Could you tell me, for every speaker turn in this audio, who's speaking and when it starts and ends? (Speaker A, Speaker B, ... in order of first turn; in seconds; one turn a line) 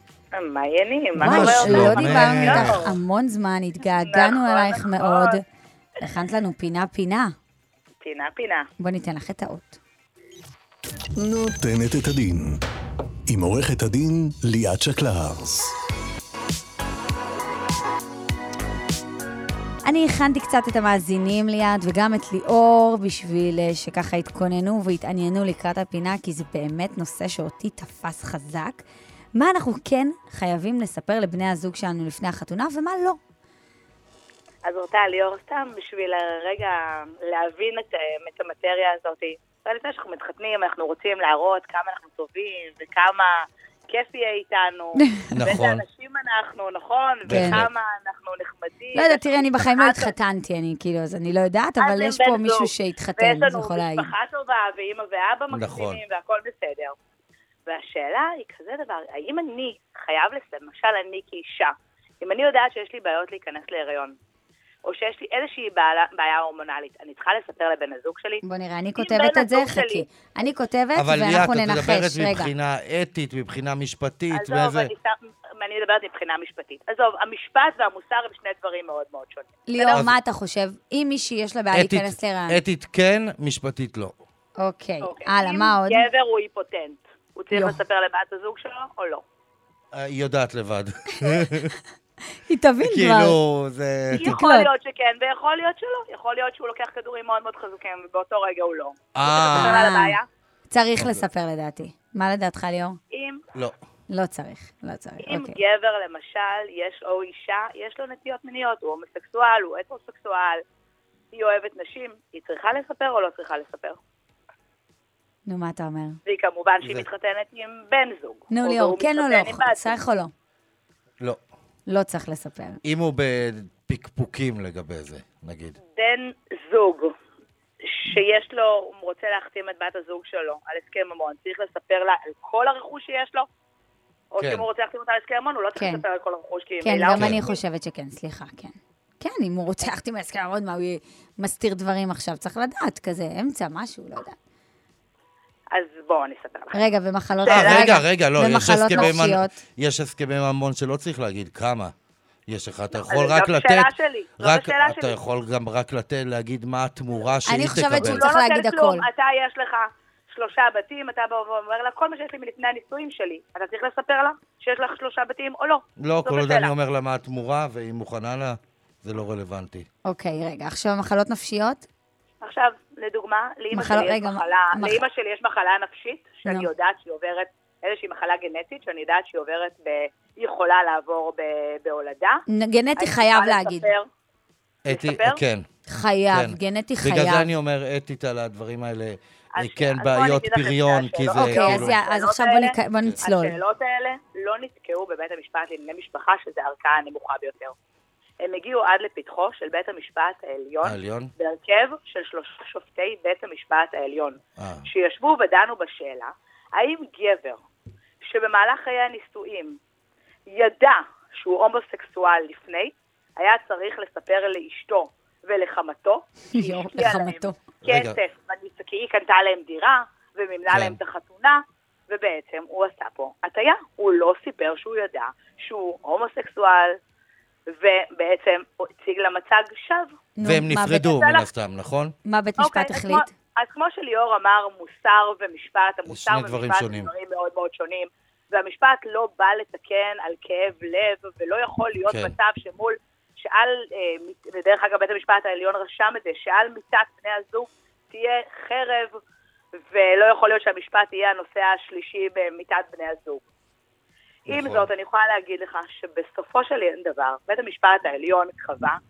Speaker A: 0.3-3.0
Speaker B: 1.2-2.8
Speaker C: 1.2-5.4
Speaker A: 4.1-5.4
Speaker C: 6.0-7.3
Speaker A: 8.0-8.7
Speaker C: 8.8-9.8
Speaker D: 11.2-12.6
Speaker D: 13.3-15.8
Speaker C: 19.8-33.2
Speaker A: 34.6-43.3
Speaker A: 43.9-50.1
Speaker B: 45.3-45.8
Speaker B: 47.3-47.7
Speaker C: 47.3-47.6
Speaker C: 49.0-54.1
Speaker A: 51.8-57.0
Speaker B: 55.5-56.0
Speaker A: 57.7-64.2
Speaker A: 64.8-68.4
Speaker C: 68.4-72.5
Speaker A: 69.0-70.1
Speaker B: 71.0-74.9
Speaker A: 74.3-80.1
Speaker C: 79.7-82.6
Speaker B: 81.7-84.2
Speaker C: 84.6-86.0
Speaker A: 85.0-89.2
Speaker C: 87.5-87.8
Speaker B: 89.9-91.8
Speaker C: 92.5-93.4
Speaker B: 92.8-94.4
Speaker C: 94.2-94.7
Speaker A: 94.2-100.3
Speaker B: 99.2-99.8
Speaker C: 99.5-100.2
Speaker C: 100.7-103.0
Speaker B: 101.0-101.2
Speaker A: 103.1-103.4
Speaker C: 104.1-105.5
Speaker A: 105.2-110.6
Speaker A: 111.3-114.0
Speaker C: 115.5-116.2
Speaker A: 116.2-120.0
Speaker C: 118.5-120.3
Speaker C: 121.9-122.8
Speaker B: 122.8-125.8
Speaker A: 125.9-127.1
Speaker A: 127.8-133.5
Speaker A: 134.3-137.6
Speaker B: 134.4-134.7
Speaker C: 135.8-136.0
Speaker C: 136.8-144.4
Speaker B: 137.1-137.4
Speaker A: 145.7-148.0
Speaker C: 146.7-149.6
Speaker B: 147.5-151.9
Speaker B: 152.5-158.3
Speaker A: 152.9-155.2
Speaker C: 157.5-159.1
Speaker A: 157.8-166.7
Speaker B: 166.0-169.9
Speaker C: 170.1-171.9
Speaker A: 172.4-182.4
Speaker C: 173.7-175.0
Speaker C: 182.5-183.9
Speaker A: 183.0-184.1
Speaker B: 184.8-185.7
Speaker A: 184.9-185.4
Speaker C: 185.9-187.5
Speaker B: 186.3-191.9
Speaker A: 189.5-197.8
Speaker C: 191.4-193.6
Speaker A: 198.4-207.6
Speaker B: 200.8-201.3
Speaker B: 204.6-204.9
Speaker A: 208.2-209.8
Speaker A: 210.5-226.9
Speaker C: 216.5-217.6
Speaker B: 217.8-218.2
Speaker B: 220.7-221.0
Speaker A: 227.7-230.1
Speaker C: 230.4-231.1
Speaker B: 230.4-232.2
Speaker A: 231.0-231.5
Speaker C: 232.3-233.3
Speaker A: 232.6-249.1
Speaker B: 236.1-237.1
Speaker B: 242.1-242.3
Speaker A: 249.9-253.4
Speaker B: 254.5-254.9
Speaker A: 254.5-259.0